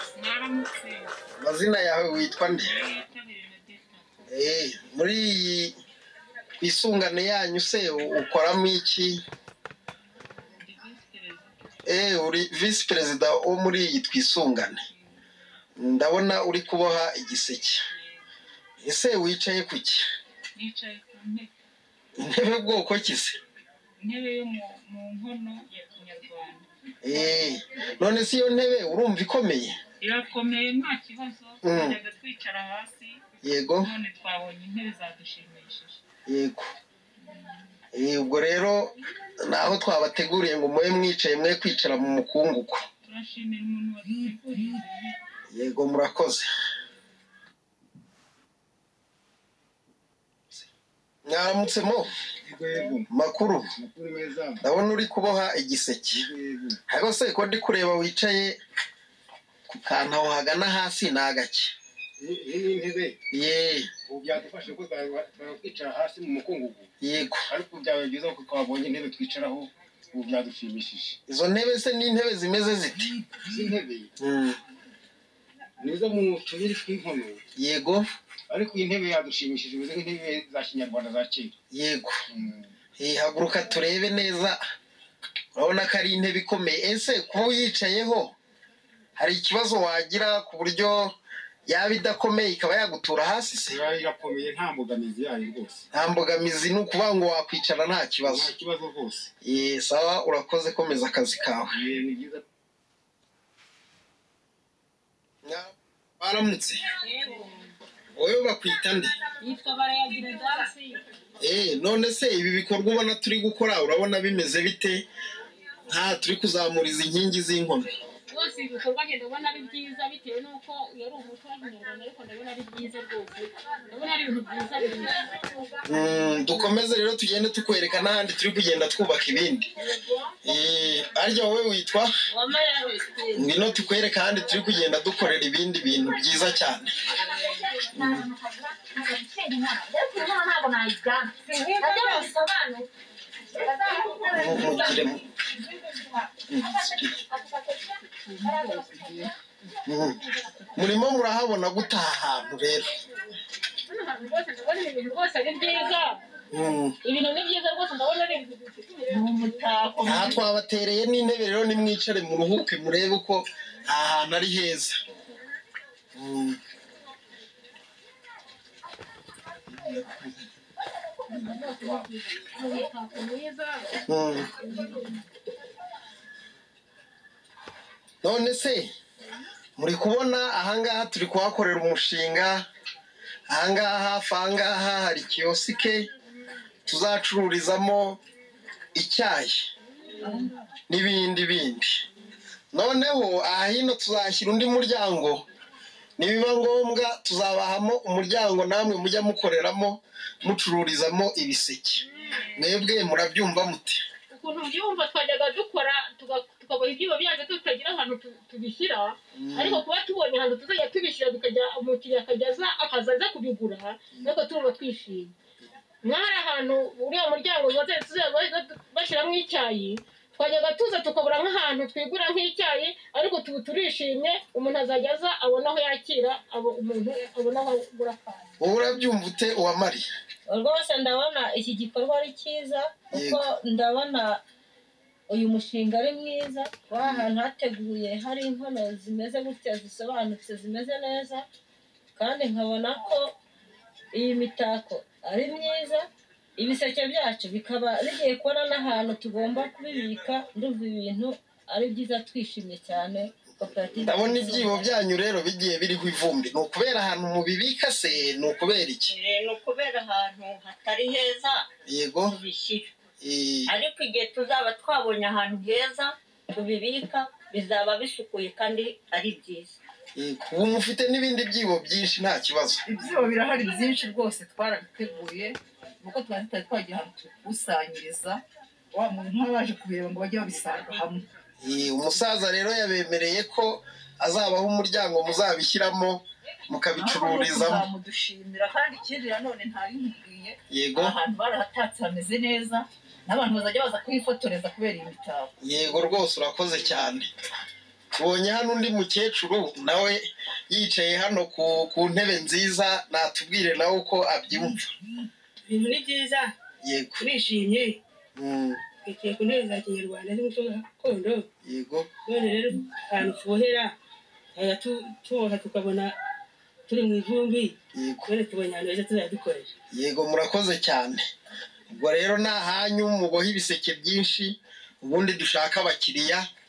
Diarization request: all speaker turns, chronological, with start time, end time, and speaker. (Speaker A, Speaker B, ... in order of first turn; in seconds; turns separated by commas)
Speaker A: 0.2-1.1, Speaker B: 1.4-2.7, Speaker A: 2.6-4.0, Speaker B: 4.3-5.7, Speaker B: 6.6-9.2, Speaker A: 10.6-11.7, Speaker B: 11.8-14.8, Speaker B: 15.8-17.8, Speaker B: 18.8-20.0, Speaker A: 20.6-21.5, Speaker B: 22.2-23.3, Speaker A: 24.0-26.7, Speaker B: 27.0-29.7, Speaker A: 30.0-36.0, Speaker B: 31.6-32.0, Speaker B: 33.4-33.9, Speaker B: 36.3-36.7, Speaker B: 37.9-42.8, Speaker A: 43.0-45.1, Speaker B: 45.5-46.5, Speaker B: 51.2-52.1, Speaker C: 52.4-53.1, Speaker B: 53.1-53.7, Speaker C: 53.7-54.6, Speaker B: 54.6-56.2, Speaker C: 56.1-56.8, Speaker B: 56.9-58.6, Speaker B: 59.7-61.7, Speaker C: 62.2-63.2, Speaker B: 63.3-63.9, Speaker C: 64.1-66.9, Speaker B: 67.0-67.4, Speaker C: 67.5-71.2, Speaker B: 71.3-73.1, Speaker C: 73.4-74.1, Speaker B: 74.2-74.6, Speaker C: 75.8-77.4, Speaker B: 77.5-78.1, Speaker C: 78.5-81.5, Speaker B: 81.7-82.2, Speaker C: 82.3-82.7, Speaker B: 83.0-84.6, Speaker B: 85.5-88.3, Speaker B: 89.2-91.1, Speaker B: 91.7-93.8, Speaker C: 93.7-95.8, Speaker B: 95.9-98.5, Speaker C: 98.2-99.3, Speaker B: 99.4-101.7, Speaker C: 101.7-102.4, Speaker B: 105.4-106.8, Speaker D: 107.0-107.6, Speaker B: 108.1-109.1, Speaker D: 109.4-110.9, Speaker B: 111.4-115.0, Speaker B: 115.9-117.9, Speaker D: 118.3-125.5, Speaker B: 125.8-129.6, Speaker B: 130.4-132.1, Speaker E: 132.3-133.5, Speaker B: 133.3-136.9, Speaker B: 137.9-138.3, Speaker F: 138.9-141.3, Speaker D: 140.6-141.9, Speaker E: 141.5-142.4, Speaker F: 144.3-144.7, Speaker B: 144.3-145.2, Speaker B: 146.5-147.2, Speaker F: 148.1-149.3, Speaker B: 149.8-150.2, Speaker B: 150.7-152.9, Speaker D: 153.9-156.2, Speaker B: 156.5-156.9, Speaker D: 157.0-159.0, Speaker F: 159.1-160.4, Speaker B: 160.0-164.9, Speaker B: 166.1-166.6, Speaker B: 169.7-170.3, Speaker D: 171.3-173.9, Speaker B: 174.1-174.5, Speaker D: 174.6-175.2, Speaker B: 178.2-178.9, Speaker B: 179.8-182.6, Speaker B: 183.5-186.1, Speaker B: 186.8-188.2, Speaker B: 188.9-189.7, Speaker B: 190.9-191.9, Speaker B: 192.7-195.4, Speaker B: 196.2-202.0, Speaker B: 202.5-204.0, Speaker D: 204.3-215.3, Speaker B: 209.3-209.8, Speaker D: 216.0-228.5, Speaker B: 228.6-230.0, Speaker E: 230.5-234.4, Speaker B: 233.1-233.5, Speaker E: 235.3-241.4, Speaker B: 237.0-237.3, Speaker E: 242.1-243.3, Speaker E: 244.1-254.8, Speaker B: 253.9-259.1, Speaker G: 259.1-261.6, Speaker B: 261.9-262.4, Speaker G: 262.3-262.9, Speaker B: 263.2-263.7, Speaker G: 263.7-269.8, Speaker B: 270.1-272.8, Speaker F: 272.9-278.4, Speaker F: 278.9-281.2, Speaker B: 281.6-287.9, Speaker F: 286.9-295.5, Speaker B: 290.7-291.1, Speaker B: 295.6-297.3, Speaker B: 298.1-304.9, Speaker H: 305.7-306.5, Speaker B: 306.8-307.2, Speaker H: 307.2-308.0, Speaker B: 308.4-308.8, Speaker H: 309.0-311.4, Speaker B: 311.6-312.1, Speaker H: 312.2-313.9, Speaker H: 314.5-316.1, Speaker H: 316.9-317.8, Speaker B: 317.9-318.3, Speaker H: 318.3-319.7, Speaker B: 319.9-321.2, Speaker B: 321.9-326.5